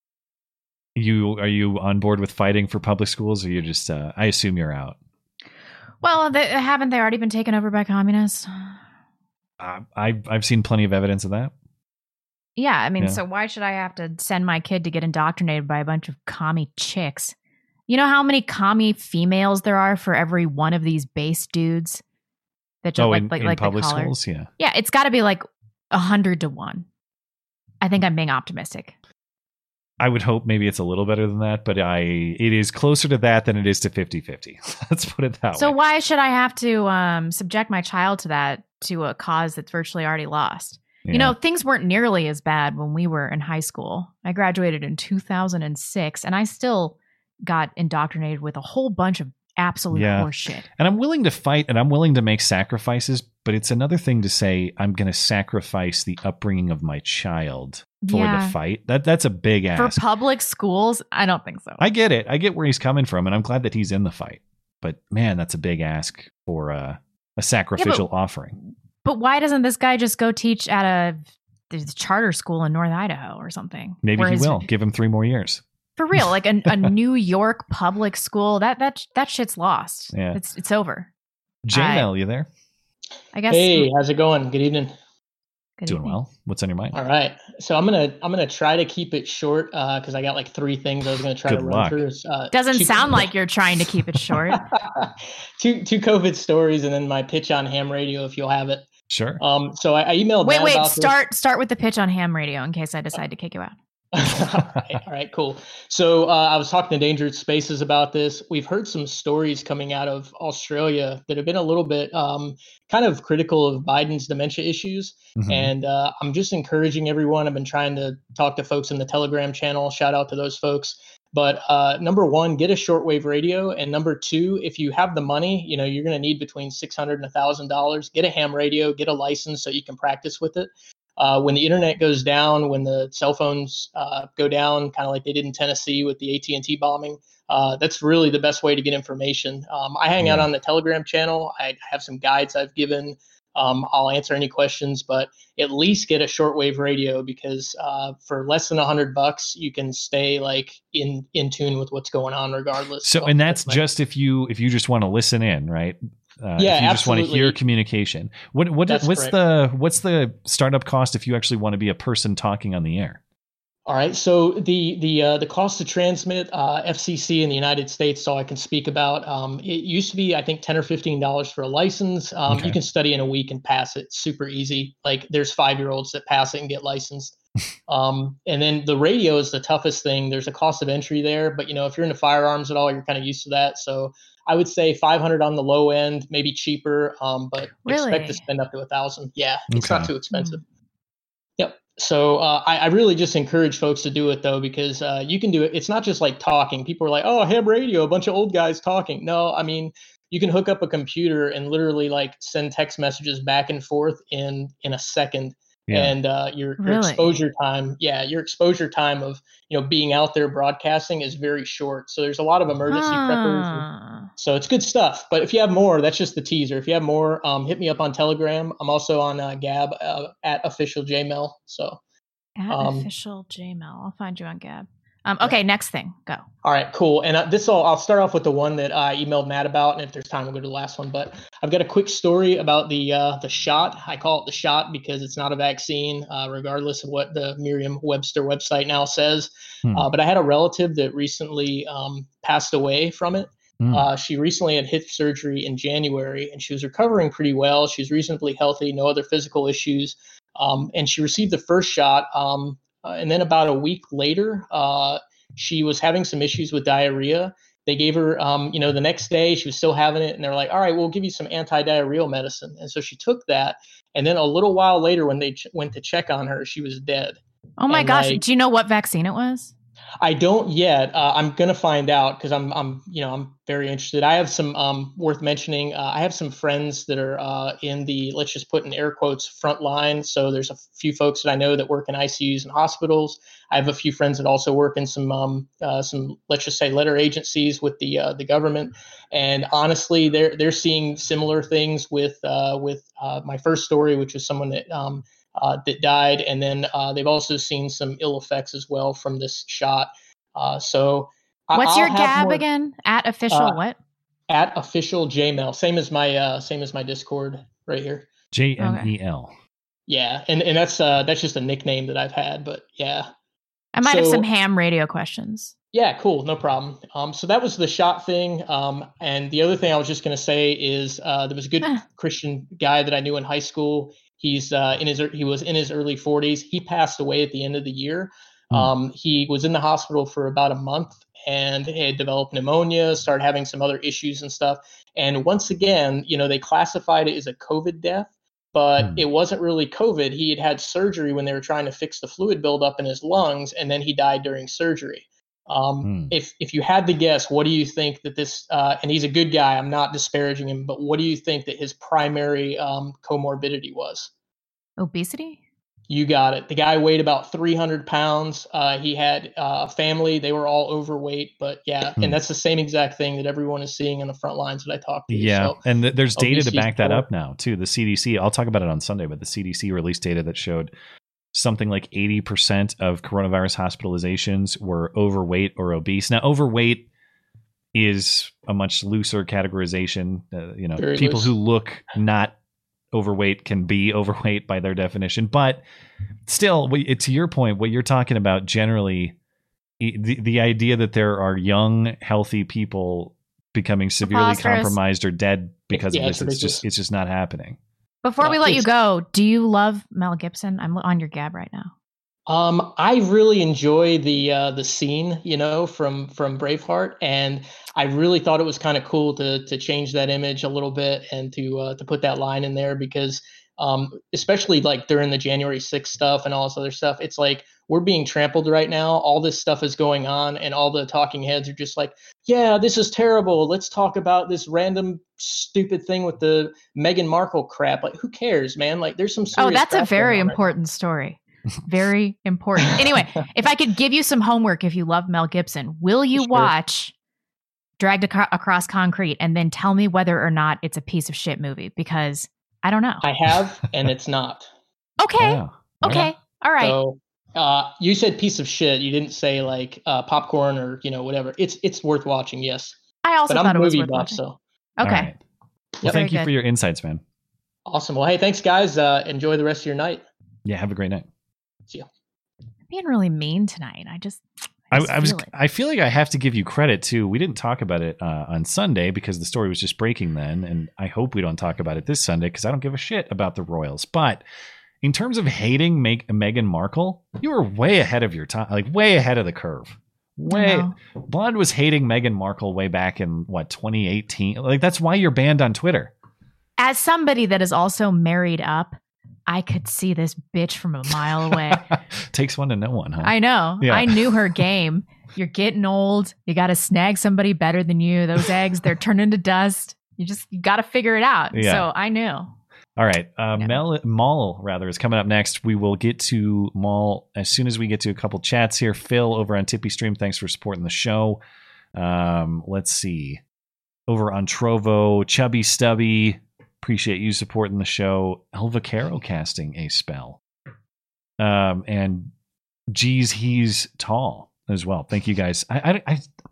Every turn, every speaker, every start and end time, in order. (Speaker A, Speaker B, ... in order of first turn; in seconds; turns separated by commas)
Speaker A: 0.9-5.0, Speaker B: 6.0-8.8, Speaker A: 9.6-11.5, Speaker B: 12.6-17.3, Speaker B: 17.9-22.0, Speaker B: 22.8-26.9, Speaker A: 23.0-24.5, Speaker B: 27.8-28.9, Speaker A: 30.0-35.8, Speaker B: 35.5-50.6, Speaker A: 41.0-41.4, Speaker A: 49.9-60.0, Speaker B: 58.0-58.5, Speaker B: 59.7-61.8, Speaker A: 61.8-68.5, Speaker B: 67.8-68.0, Speaker B: 69.0-74.7, Speaker A: 74.0-75.6, Speaker B: 76.0-81.1, Speaker A: 80.1-80.4, Speaker A: 81.6-82.5, Speaker B: 81.7-82.1, Speaker B: 83.3-83.9, Speaker C: 83.5-84.9, Speaker B: 85.8-86.2, Speaker A: 85.9-87.0, Speaker C: 86.9-93.3, Speaker A: 91.5-92.0, Speaker B: 92.5-94.6, Speaker C: 94.5-98.9, Speaker A: 99.1-99.4, Speaker C: 99.4-101.2, Speaker B: 100.4-103.7, Speaker C: 104.1-153.8, Speaker A: 104.5-105.0, Speaker A: 115.4-115.7, Speaker A: 140.2-140.5, Speaker A: 153.0-163.2, Speaker C: 156.6-157.6, Speaker C: 158.9-159.4, Speaker C: 163.9-177.3, Speaker A: 172.5-172.8, Speaker C: 177.9-190.6, Speaker B: 187.8-188.4, Speaker A: 189.7-190.1, Speaker B: 190.3-190.6, Speaker C: 191.6-222.0, Speaker A: 205.9-206.1, Speaker B: 206.8-207.3, Speaker B: 212.9-214.3, Speaker B: 222.6-226.4, Speaker C: 222.7-223.1, Speaker C: 226.6-267.4, Speaker A: 243.8-244.1, Speaker B: 267.8-269.7, Speaker C: 267.9-268.4, Speaker C: 270.2-302.6, Speaker B: 301.7-303.9, Speaker C: 303.5-303.8, Speaker C: 304.5-308.3, Speaker A: 308.5-309.5, Speaker B: 308.8-309.1, Speaker C: 310.1-313.3, Speaker B: 313.9-315.7, Speaker C: 314.0-314.4, Speaker C: 315.9-354.3, Speaker A: 346.0-346.3, Speaker B: 355.0-355.6, Speaker C: 356.1-365.8, Speaker A: 365.3-370.9, Speaker C: 366.4-367.3, Speaker A: 371.5-377.1, Speaker A: 377.9-382.6, Speaker C: 381.0-381.5, Speaker A: 383.1-385.8, Speaker A: 386.5-389.4, Speaker A: 390.0-397.8, Speaker B: 394.2-395.0, Speaker C: 395.9-396.8, Speaker B: 398.2-401.9, Speaker C: 398.4-398.9, Speaker C: 402.5-430.6, Speaker B: 429.6-437.1, Speaker C: 432.8-433.3, Speaker C: 436.3-436.7, Speaker B: 438.0-443.2, Speaker C: 443.2-444.7, Speaker B: 445.2-447.0, Speaker A: 445.4-446.3, Speaker C: 446.8-452.9, Speaker B: 453.2-454.4, Speaker C: 453.5-454.6, Speaker B: 455.0-455.3, Speaker A: 455.0-455.4, Speaker B: 456.0-456.5, Speaker A: 456.0-457.2, Speaker C: 457.9-460.2, Speaker A: 460.6-461.3, Speaker B: 462.9-465.5, Speaker A: 464.9-474.4, Speaker A: 475.0-486.1, Speaker B: 480.5-480.9, Speaker B: 486.8-491.9, Speaker A: 491.7-494.2, Speaker B: 493.2-502.6, Speaker A: 501.5-501.9, Speaker A: 502.9-511.4, Speaker B: 503.5-503.8, Speaker A: 511.9-513.4, Speaker A: 514.1-520.4, Speaker A: 521.4-522.3, Speaker A: 522.9-526.3